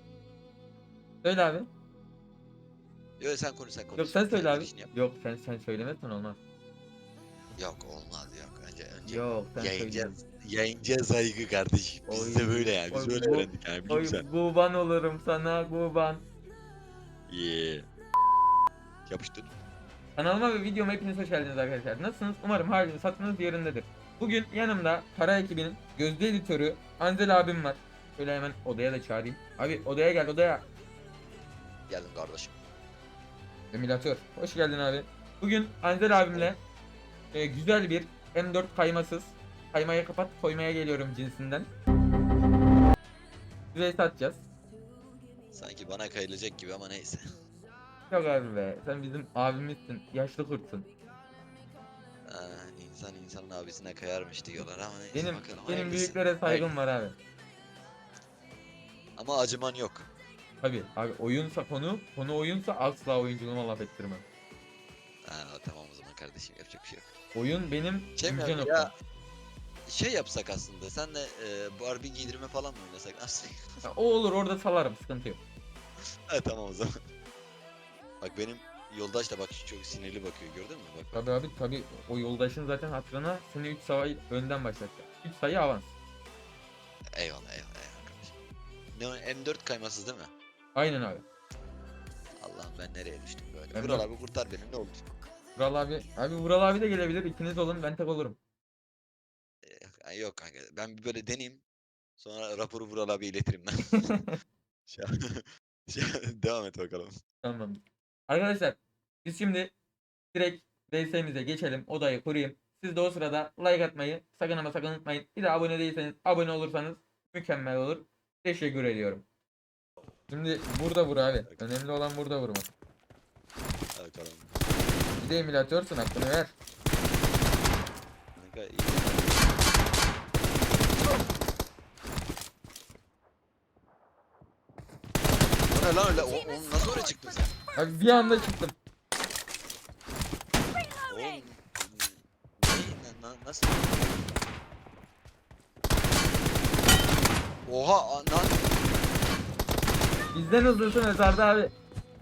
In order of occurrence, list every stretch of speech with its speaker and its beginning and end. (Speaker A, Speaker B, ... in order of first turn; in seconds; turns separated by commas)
Speaker A: 1.2-1.7, Speaker B: 3.2-4.9, Speaker A: 4.0-6.4, Speaker B: 7.6-14.2, Speaker A: 9.1-10.2, Speaker A: 12.1-16.2, Speaker B: 17.3-17.9, Speaker B: 19.1-19.5, Speaker A: 20.2-30.6, Speaker B: 31.9-32.5, Speaker A: 33.7-36.6, Speaker B: 36.1-36.5, Speaker A: 37.3-41.7, Speaker A: 43.7-44.4, Speaker B: 45.5-47.4, Speaker A: 48.1-50.9, Speaker B: 52.2-56.7, Speaker A: 55.1-57.2, Speaker B: 59.2-60.1, Speaker A: 60.6-64.2, Speaker B: 65.2-67.1, Speaker A: 67.3-68.9, Speaker B: 68.2-68.9, Speaker B: 69.9-73.7, Speaker A: 73.8-75.4, Speaker B: 76.3-76.9, Speaker B: 78.2-81.2, Speaker A: 81.1-85.9, Speaker B: 87.2-88.3, Speaker B: 88.9-90.3, Speaker A: 90.8-91.2, Speaker B: 92.4-95.0, Speaker A: 93.7-94.0, Speaker A: 95.6-98.4, Speaker B: 99.6-101.6, Speaker B: 102.2-104.2, Speaker B: 104.9-107.1, Speaker A: 107.4-109.7, Speaker A: 110.3-119.2, Speaker A: 120.3-122.7, Speaker B: 124.0-124.6, Speaker A: 125.2-126.5, Speaker B: 128.4-129.6, Speaker B: 135.7-137.5, Speaker A: 137.8-138.8, Speaker B: 141.1-144.1, Speaker B: 147.7-148.7, Speaker A: 150.3-151.7